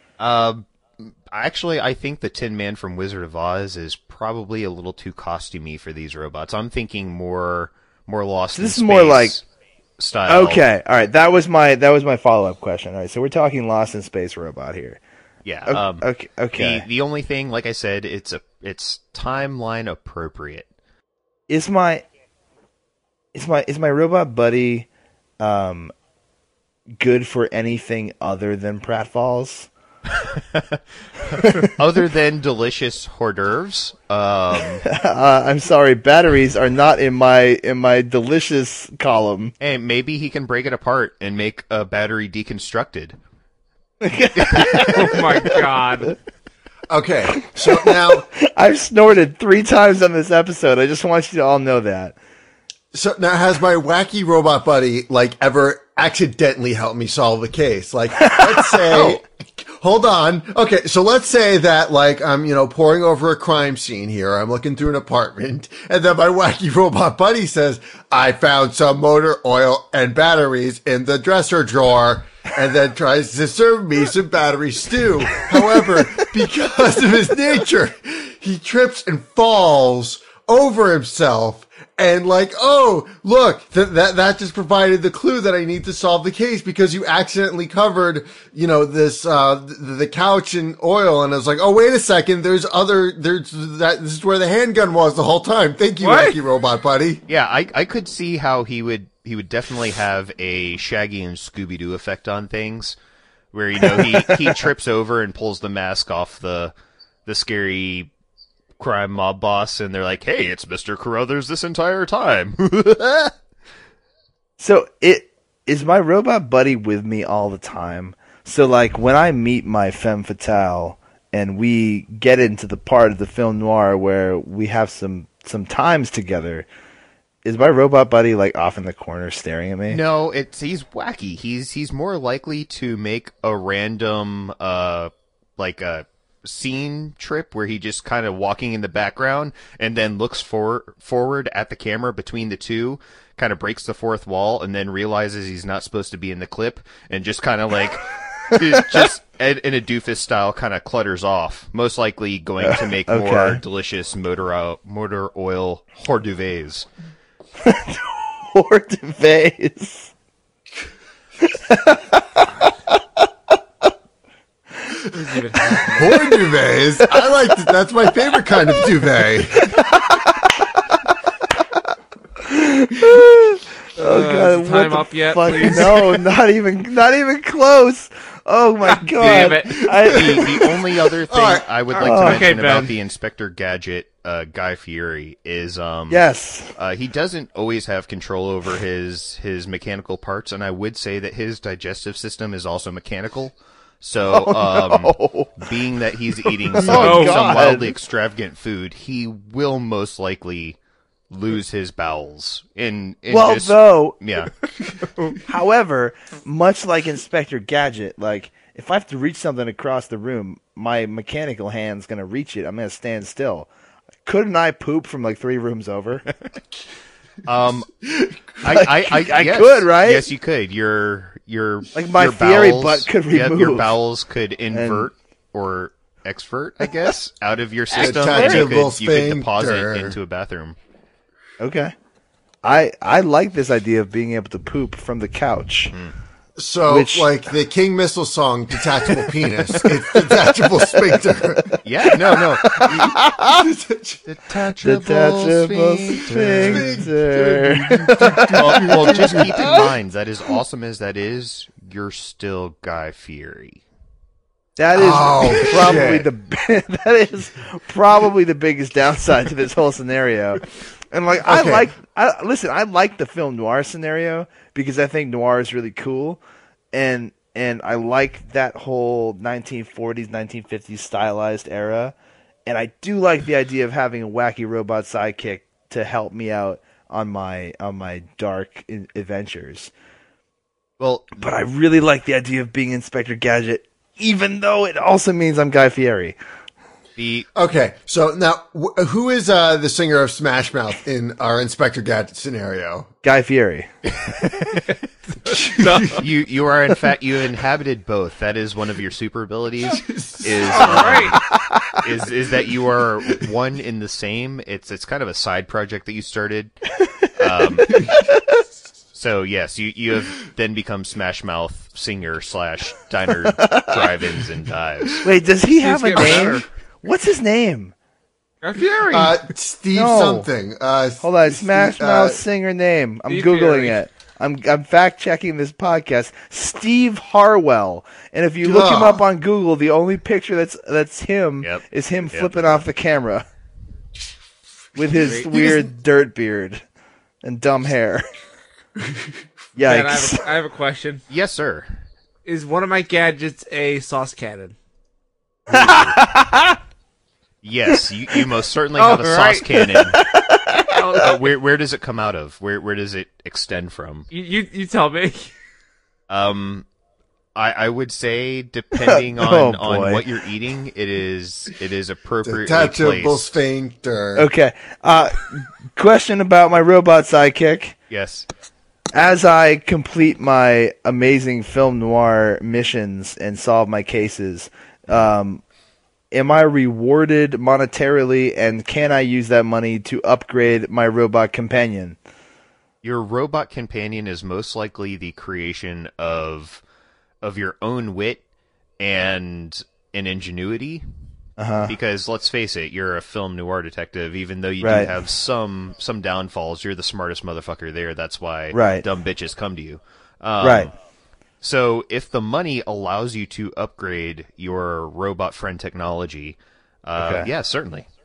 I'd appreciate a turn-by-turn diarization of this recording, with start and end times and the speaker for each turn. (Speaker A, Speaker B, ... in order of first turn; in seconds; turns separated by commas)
Speaker A: 0.2-9.4, Speaker B: 8.6-9.4, Speaker A: 10.0-10.6, Speaker B: 10.3-15.0, Speaker A: 15.4-20.7, Speaker B: 15.7-16.9, Speaker B: 21.5-22.1, Speaker B: 23.3-24.9, Speaker B: 25.4-25.9, Speaker B: 27.0-29.7, Speaker A: 30.1-34.8, Speaker B: 31.4-31.7, Speaker B: 34.8-39.5, Speaker A: 39.6-43.2, Speaker B: 44.0-45.6, Speaker A: 44.4-45.2, Speaker C: 44.8-46.1, Speaker D: 46.9-48.3, Speaker B: 47.4-52.2, Speaker D: 52.9-97.2, Speaker B: 58.2-59.1, Speaker C: 96.0-96.4, Speaker A: 97.3-103.0, Speaker A: 103.5-106.7, Speaker B: 104.0-104.5, Speaker A: 107.3-108.1, Speaker A: 108.8-113.3, Speaker B: 114.6-126.7, Speaker B: 127.5-130.0, Speaker A: 129.9-156.9, Speaker B: 148.5-149.1, Speaker B: 152.6-153.6, Speaker B: 157.6-160.1, Speaker B: 161.4-163.2, Speaker C: 165.1-166.2, Speaker D: 165.8-169.9, Speaker B: 167.0-167.3, Speaker B: 169.7-170.7, Speaker B: 172.4-180.5, Speaker C: 174.0-176.0, Speaker C: 178.9-179.9, Speaker A: 179.2-200.8, Speaker D: 180.0-180.8, Speaker D: 181.3-181.7, Speaker C: 181.9-182.9, Speaker B: 182.0-182.5, Speaker B: 186.1-186.7, Speaker B: 194.3-195.7, Speaker B: 196.4-197.9, Speaker C: 196.9-197.7, Speaker A: 201.3-204.5, Speaker B: 203.3-204.2, Speaker B: 205.4-213.7, Speaker B: 214.2-216.3, Speaker A: 217.4-230.8, Speaker B: 218.7-220.3, Speaker B: 221.9-223.9, Speaker B: 224.7-225.1, Speaker D: 228.0-230.2, Speaker B: 231.6-231.9, Speaker B: 232.6-235.9, Speaker D: 236.6-241.8, Speaker B: 236.9-237.3, Speaker B: 241.6-243.7, Speaker A: 241.8-243.2, Speaker D: 243.5-244.2, Speaker A: 244.3-246.9, Speaker B: 244.8-249.9, Speaker D: 246.7-249.8, Speaker A: 248.4-253.8, Speaker B: 254.8-266.4, Speaker D: 254.9-256.3, Speaker D: 261.4-261.9, Speaker B: 266.9-272.1, Speaker B: 272.7-279.9, Speaker A: 281.0-281.4, Speaker B: 281.4-286.4, Speaker A: 287.2-287.5, Speaker D: 287.5-293.1, Speaker B: 293.2-294.8, Speaker D: 295.5-296.2, Speaker C: 295.5-296.2, Speaker A: 296.1-301.4, Speaker D: 300.3-300.8, Speaker C: 300.7-301.4, Speaker B: 301.3-302.0, Speaker A: 301.9-308.1, Speaker B: 307.9-308.6, Speaker A: 309.1-315.2, Speaker B: 313.4-314.1, Speaker B: 315.2-317.9, Speaker C: 315.7-316.7, Speaker C: 318.6-319.4, Speaker D: 319.1-322.4, Speaker B: 319.9-320.5, Speaker B: 321.2-333.4, Speaker C: 323.3-324.0, Speaker D: 328.6-329.2, Speaker A: 331.6-332.7, Speaker B: 335.0-336.8, Speaker C: 335.1-335.5, Speaker B: 337.4-338.2, Speaker B: 339.8-340.4, Speaker C: 339.8-341.2, Speaker A: 341.3-341.9, Speaker C: 342.4-344.8, Speaker A: 345.7-346.1, Speaker B: 345.7-346.8, Speaker A: 347.6-350.2, Speaker C: 349.0-349.9, Speaker B: 350.1-351.0, Speaker C: 350.9-351.3, Speaker A: 351.2-354.3, Speaker C: 354.3-355.5, Speaker A: 356.3-356.9, Speaker A: 357.6-363.4, Speaker B: 359.0-360.2, Speaker D: 362.4-364.5, Speaker B: 364.4-368.0, Speaker A: 368.1-368.5, Speaker B: 369.1-375.6, Speaker B: 376.3-382.2, Speaker A: 383.0-386.8, Speaker A: 387.4-388.4, Speaker A: 389.0-391.0, Speaker B: 391.6-391.9, Speaker A: 391.9-400.9, Speaker B: 394.8-395.1, Speaker B: 398.7-399.1, Speaker B: 400.6-400.9, Speaker A: 401.6-408.1, Speaker B: 407.2-407.5